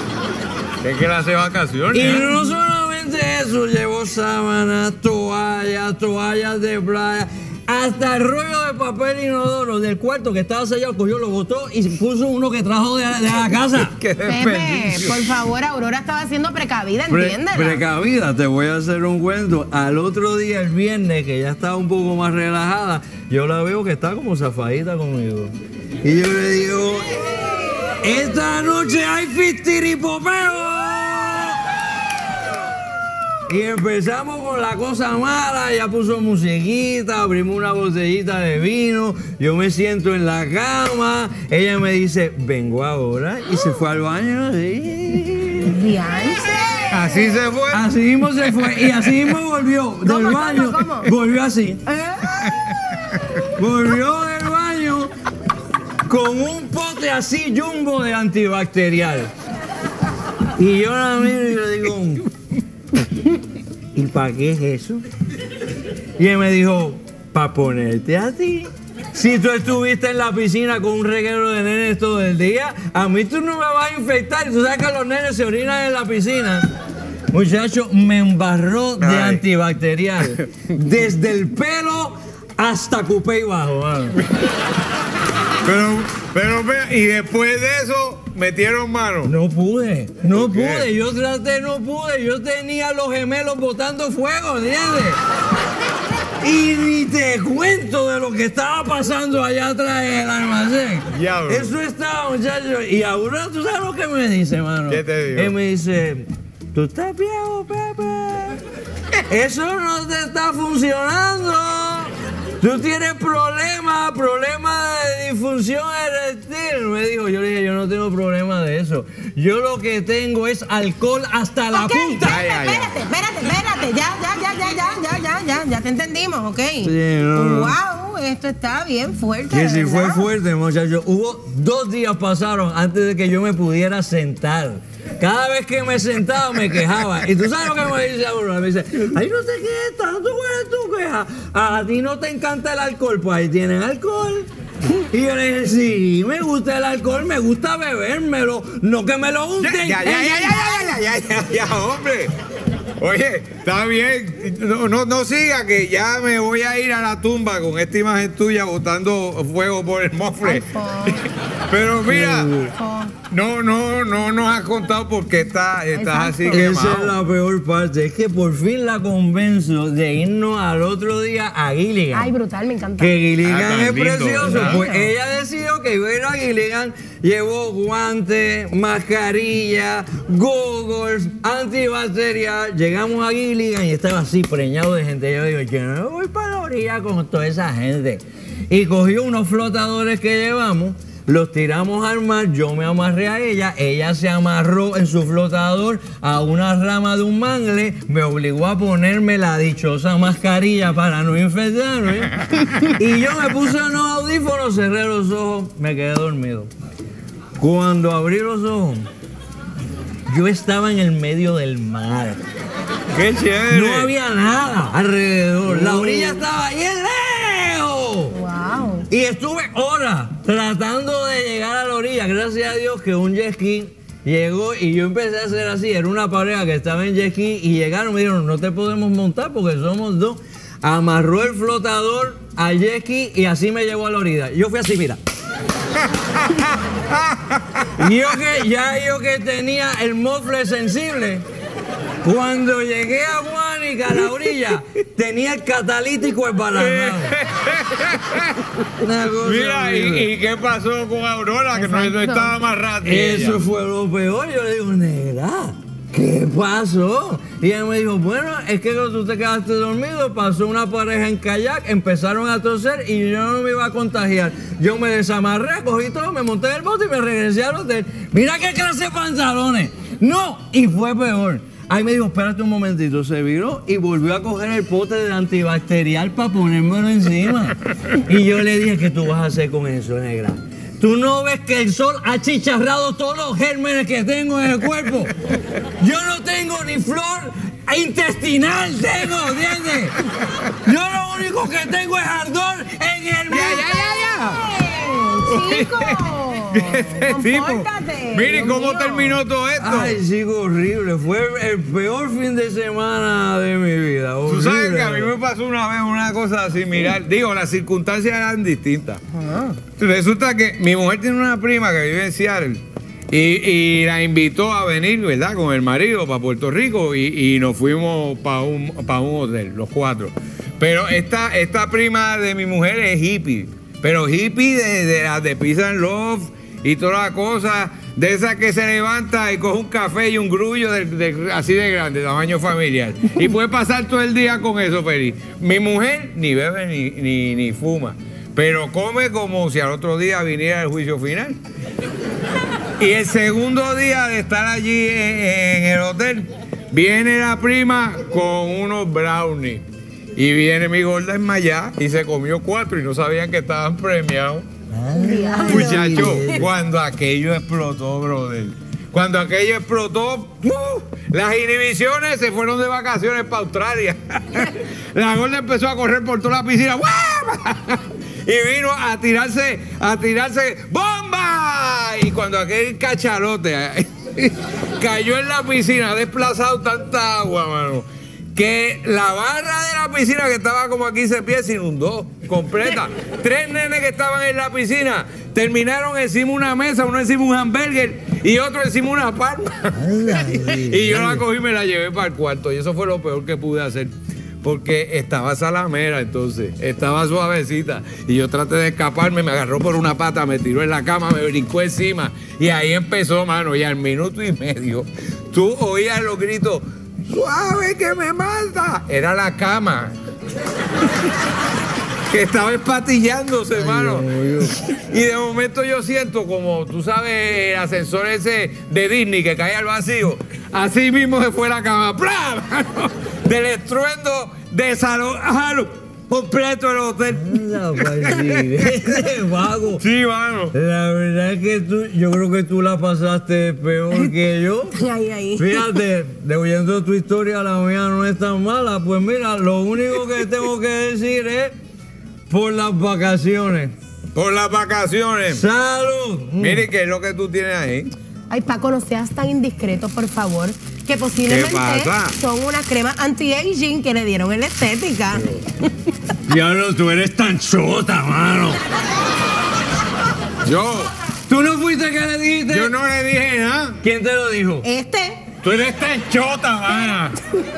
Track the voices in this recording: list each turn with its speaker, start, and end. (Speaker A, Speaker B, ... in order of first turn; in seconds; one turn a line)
Speaker A: 0.8-2.4
Speaker B: 1.9-13.9
Speaker A: 13.7-15.3
Speaker C: 14.2-17.8
Speaker B: 17.1-31.6
Speaker B: 33.5-45.8
Speaker C: 43.5-43.8
Speaker C: 45.6-47.4
Speaker A: 46.9-47.8
Speaker B: 47.7-51.8
Speaker A: 48.4-49.2
Speaker C: 50.0-51.1
Speaker C: 51.9-52.5
Speaker B: 53.5-55.1
Speaker B: 56.0-59.3
Speaker B: 60.5-62.3
Speaker B: 63.9-65.0
Speaker B: 66.2-76.7
Speaker B: 77.3-84.2
Speaker A: 79.0-79.4
Speaker A: 85.6-89.3
Speaker B: 89.2-95.2
Speaker A: 90.3-90.9
Speaker B: 96.4-108.6
Speaker A: 101.1-101.8
Speaker A: 104.9-105.5
Speaker B: 109.2-122.3
Speaker C: 121.7-130.3
Speaker A: 122.2-123.0
Speaker B: 126.8-127.7
Speaker B: 129.5-150.6
Speaker A: 149.6-152.3
Speaker A: 153.0-162.5
Speaker C: 160.4-161.2
Speaker B: 162.1-162.7
Speaker C: 162.7-163.1
Speaker A: 163.3-167.1
Speaker C: 165.9-166.7
Speaker B: 166.5-172.3
Speaker C: 172.1-173.2
Speaker B: 173.0-206.7
Speaker A: 173.4-174.8
Speaker C: 174.4-175.1
Speaker B: 207.6-209.1
Speaker B: 210.3-212.4
Speaker A: 213.1-214.1
Speaker B: 213.7-218.4
Speaker A: 215.7-216.4
Speaker C: 218.3-219.1
Speaker B: 219.1-235.2
Speaker A: 236.4-238.0
Speaker B: 238.0-241.4
Speaker B: 242.2-247.3
Speaker A: 246.7-248.6
Speaker B: 249.0-250.3
Speaker A: 249.3-253.6
Speaker C: 251.7-252.6
Speaker B: 253.0-285.3
Speaker B: 286.0-290.2
Speaker B: 290.7-293.9
Speaker A: 293.5-294.6
Speaker C: 293.8-299.4
Speaker A: 295.5-296.2
Speaker A: 296.7-300.2
Speaker B: 299.8-305.3
Speaker A: 304.5-309.2
Speaker A: 309.8-341.6
Speaker A: 343.0-349.8
Speaker A: 350.4-354.6
Speaker B: 354.9-356.7
Speaker C: 355.1-356.4
Speaker A: 355.6-410.1
Speaker B: 389.9-391.4
Speaker A: 412.3-428.9
Speaker B: 413.7-414.8
Speaker B: 427.3-430.0
Speaker A: 430.0-430.7
Speaker B: 430.7-434.9
Speaker C: 434.9-435.8
Speaker B: 435.6-441.7
Speaker B: 442.5-443.9
Speaker A: 444.3-445.6
Speaker B: 445.5-446.9
Speaker A: 446.6-448.1
Speaker C: 448.5-455.7
Speaker A: 451.4-452.3
Speaker B: 456.5-458.8
Speaker A: 460.6-461.1
Speaker B: 461.5-462.9
Speaker A: 462.7-464.0
Speaker B: 464.0-464.9
Speaker C: 464.8-465.4
Speaker A: 465.6-467.3